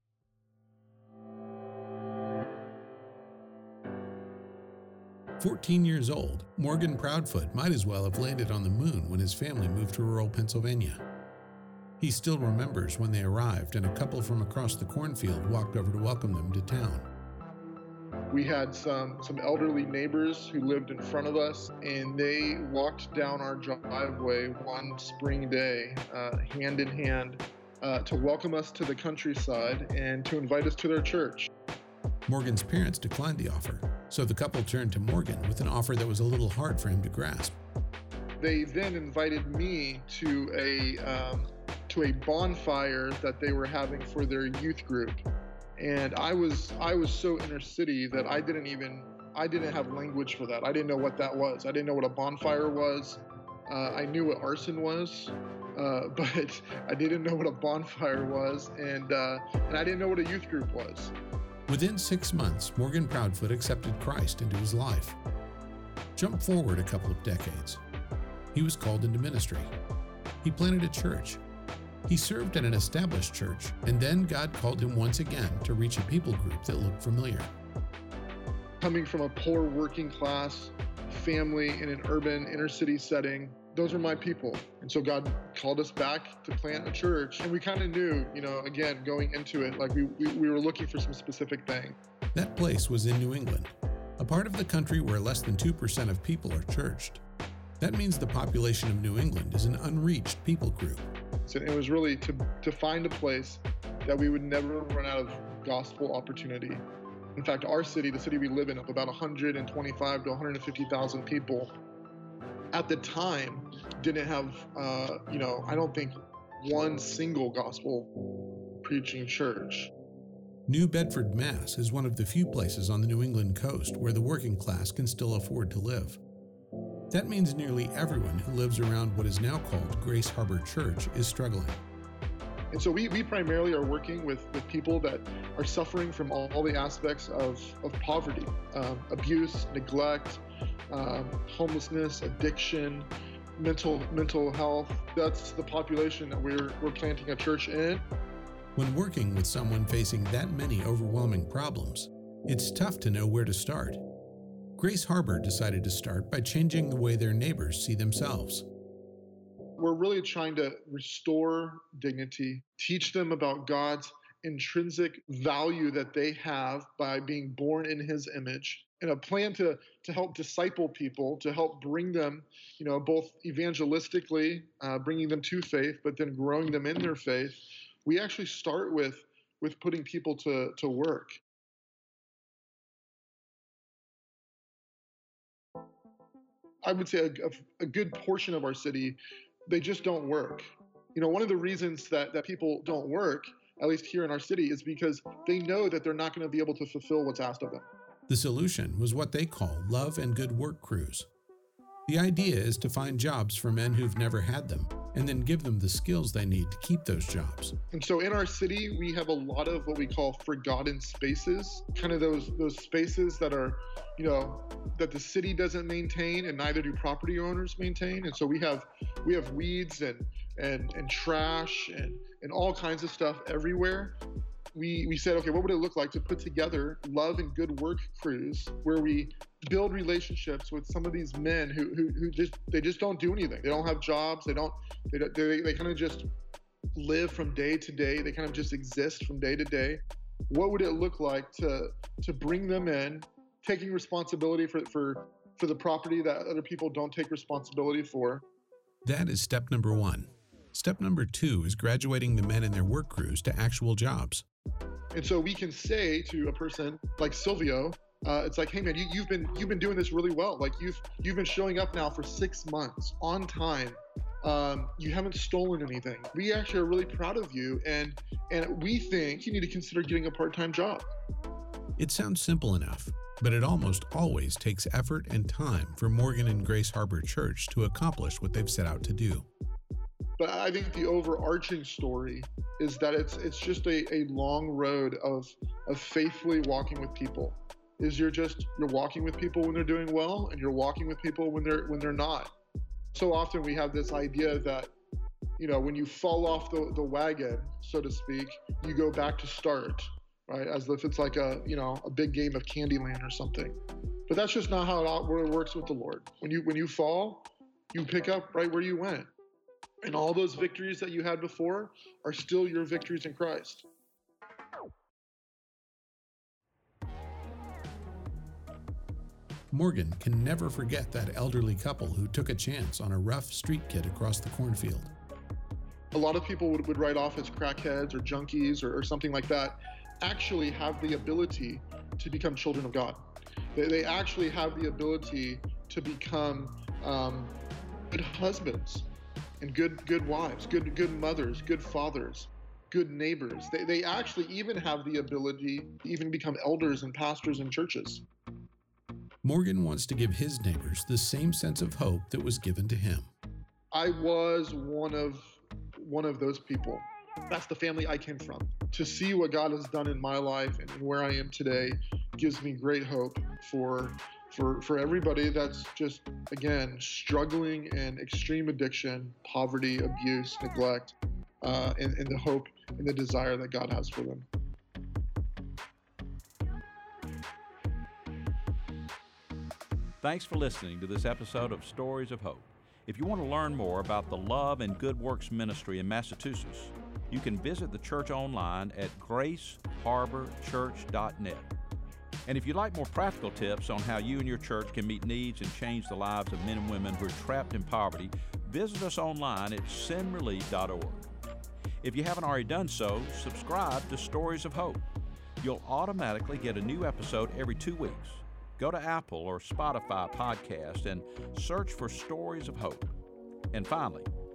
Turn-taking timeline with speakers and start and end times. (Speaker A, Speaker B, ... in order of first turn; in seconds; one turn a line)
Speaker A: 5.4-11.0
Speaker A: 12.0-17.1
Speaker B: 18.3-31.5
Speaker A: 32.3-37.5
Speaker B: 38.4-45.2
Speaker B: 45.8-61.1
Speaker A: 61.7-65.2
Speaker A: 66.2-67.8
Speaker A: 68.5-69.7
Speaker A: 70.4-71.4
Speaker A: 72.1-77.5
Speaker B: 78.8-92.0
Speaker A: 92.3-97.2
Speaker A: 97.8-101.0
Speaker B: 101.5-106.8
Speaker B: 107.3-111.7
Speaker B: 112.7-118.1
Speaker B: 118.8-119.9
Speaker A: 120.7-126.2
Speaker A: 127.1-131.8
Speaker B: 132.7-148.0
Speaker A: 148.8-154.0
Speaker A: 154.8-158.7
Speaker B: 159.8-181.4
Speaker B: 186.8-197.9
Speaker A: 198.3-201.3
Speaker A: 202.1-207.7
Speaker B: 207.9-224.2
Speaker B: 224.7-236.3
Speaker B: 236.9-248.4
Speaker A: 249.0-254.4
Speaker B: 255.1-271.1
Speaker A: 272.0-279.4
Speaker B: 280.4-292.5
Speaker B: 293.1-294.9
Speaker B: 295.6-309.3
Speaker B: 310.0-313.9
Speaker A: 319.7-325.1
Speaker B: 326.1-333.2
Speaker B: 333.7-337.5
Speaker B: 338.1-339.1
Speaker B: 339.6-348.2
Speaker A: 349.4-353.3
Speaker B: 353.9-374.5
Speaker C: 380.2-391.7
Speaker C: 392.4-401.3
Speaker C: 402.0-405.0
Speaker C: 405.6-413.1
Speaker C: 413.7-414.3